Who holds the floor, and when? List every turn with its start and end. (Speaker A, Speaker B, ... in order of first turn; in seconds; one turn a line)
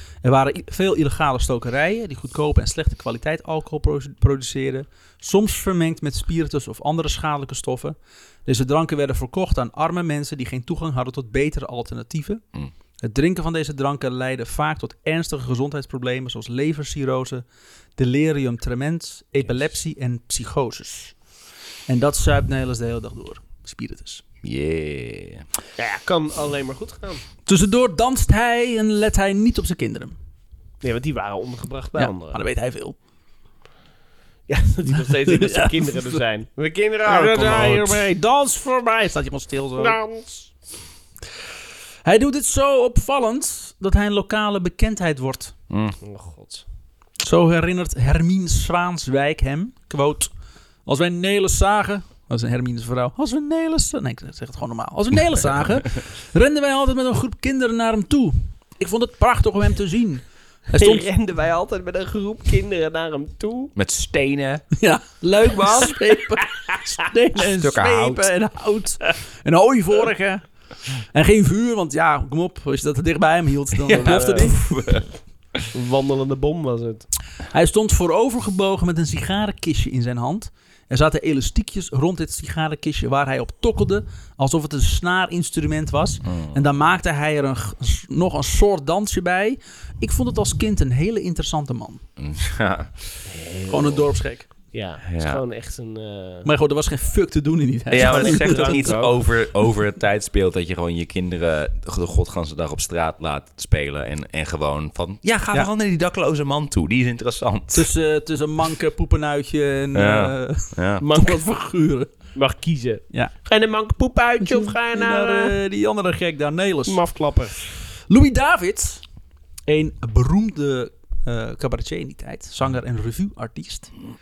Speaker A: 0.2-12.4
Speaker A: 13.0-17.4
Speaker A: 18.0-21.2
Speaker A: 21.9-24.2
Speaker B: 24.4-25.4
Speaker C: 25.8-27.2
Speaker A: 27.5-30.2
Speaker C: 30.8-32.4
Speaker A: 32.0-33.0
Speaker C: 34.5-38.1
Speaker A: 35.2-36.2
Speaker A: 37.0-40.0
Speaker C: 39.8-40.5
Speaker A: 42.0-45.5
Speaker B: 45.7-46.0
Speaker C: 46.0-46.6
Speaker A: 47.2-50.3
Speaker A: 50.9-61.1
Speaker C: 60.8-63.7
Speaker B: 63.8-64.7
Speaker A: 64.8-74.6
Speaker B: 65.5-66.0
Speaker B: 67.4-68.3
Speaker B: 73.8-75.6
Speaker C: 74.0-74.5
Speaker C: 75.7-77.1
Speaker A: 77.5-92.0
Speaker B: 86.3-86.6
Speaker B: 92.2-93.2
Speaker C: 93.3-96.5
Speaker A: 93.7-94.5
Speaker B: 95.1-95.4
Speaker A: 96.5-99.0
Speaker B: 97.9-107.9
Speaker C: 98.0-99.2
Speaker A: 107.7-112.1
Speaker B: 109.9-111.0
Speaker C: 111.0-111.4
Speaker C: 112.3-115.5
Speaker A: 114.4-117.0
Speaker C: 116.9-117.5
Speaker A: 118.1-119.0
Speaker A: 119.7-123.9